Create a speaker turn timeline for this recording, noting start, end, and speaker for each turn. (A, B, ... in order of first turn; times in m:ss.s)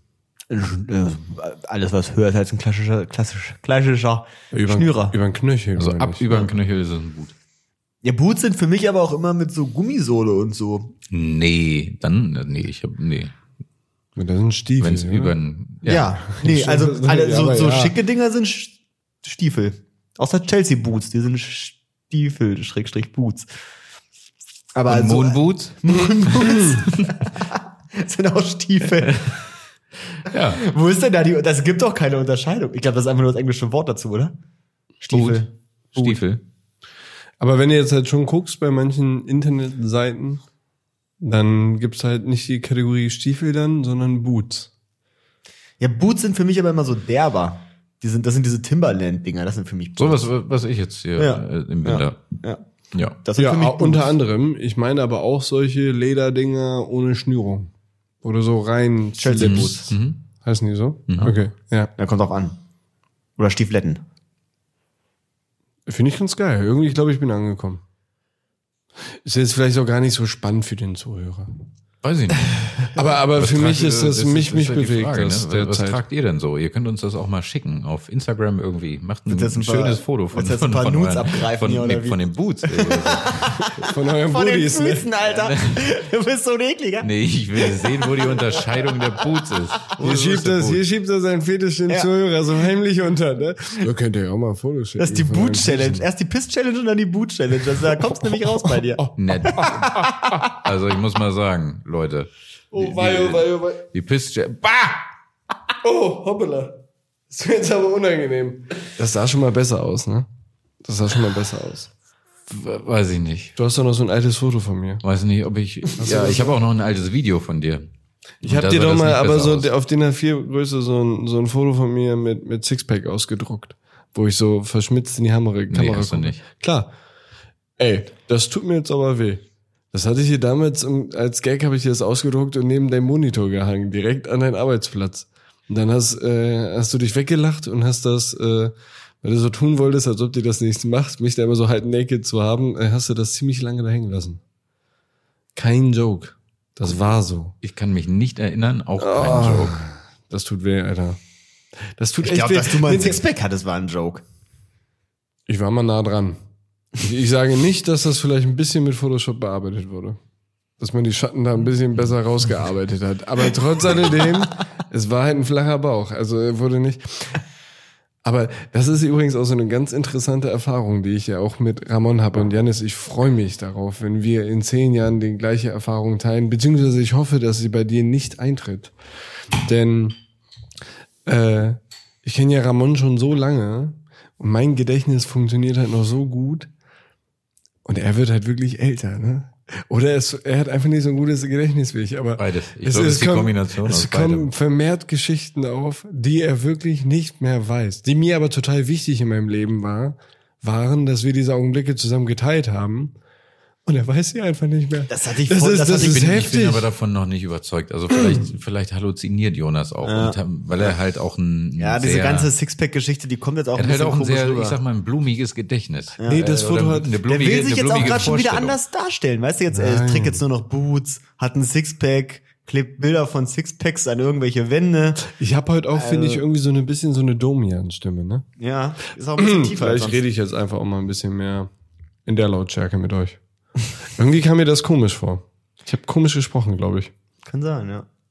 0:00.5-0:05.2 A
0:04.5-0:06.2 B
0:05.8-0:07.3 C
0:08.0-0:10.9 A
0:11.1-0:13.3 C
0:14.2-0:15.3 B
0:14.8-0:16.1 C
0:15.8-0:23.5 A
0:16.2-0:17.9 B
0:24.7-0:29.4 A
0:24.9-0:27.1 C
0:28.8-0:29.3 C
0:30.3-0:30.6 C
0:30.4-0:34.3 A
0:35.0-0:36.2 A
0:35.1-0:36.4 C
0:37.4-0:40.4 B
0:41.2-0:44.7 B
0:45.8-0:50.2 A
0:50.0-0:52.4 C
0:51.2-0:52.6 A
0:53.2-0:54.1 A
0:53.4-0:57.7 B
0:58.2-1:01.9 B
0:59.2-0:59.9 A
0:59.4-1:00.2 C
1:01.1-1:01.4 C
1:02.0-1:02.6 A
1:03.4-1:04.0 A
1:05.9-1:07.8 B
1:09.2-1:11.5 B
1:12.0-1:23.7 C
1:12.9-1:16.0 B
1:19.3-1:29.5 A
1:23.7-1:25.1 B
1:25.3-1:25.9 C
1:27.0-1:30.8 C
1:30.0-1:36.0 B
1:35.0-1:40.5 A
1:38.9-1:40.4 B
1:39.2-1:45.0 C
1:42.7-1:43.8 B
1:45.8-1:50.3 B
1:50.8-1:51.9 B
1:52.5-1:53.5 C
1:53.6-1:55.0 B
1:55.0-1:57.9 C
1:56.0-1:56.6 B
1:58.4-1:59.7 C
1:58.4-2:06.9 B
2:05.7-2:06.4 C
2:07.8-2:24.4 B
2:25.6-2:27.5 B
2:27.6-2:29.8 C
2:29.0-2:31.2 B
2:32.0-2:33.2 B
2:32.2-2:34.2 A
2:35.5-2:36.4 B
2:36.9-2:40.2 B
2:40.8-2:47.4 B
2:48.2-2:58.9 B
2:59.6-3:00.2 B
3:01.2-3:06.7 B
3:07.8-3:23.1 B
3:12.4-3:14.5 C
3:23.8-3:26.9 B
3:25.1-3:26.4 A
3:26.0-3:32.5 C
3:30.0-3:30.9 A
3:31.8-3:34.8 A
3:33.8-3:38.8 C
3:36.2-3:36.5 A
3:36.3-3:37.2 B
3:37.2-3:45.2 A
3:38.0-3:38.3 B
3:39.7-3:40.4 B
3:45.3-3:48.4 B
3:45.9-3:46.4 A
3:48.6-3:50.2 A
3:49.4-3:51.7 B
3:52.2-3:53.4 B
3:54.1-3:57.1 B
3:57.4-3:58.1 A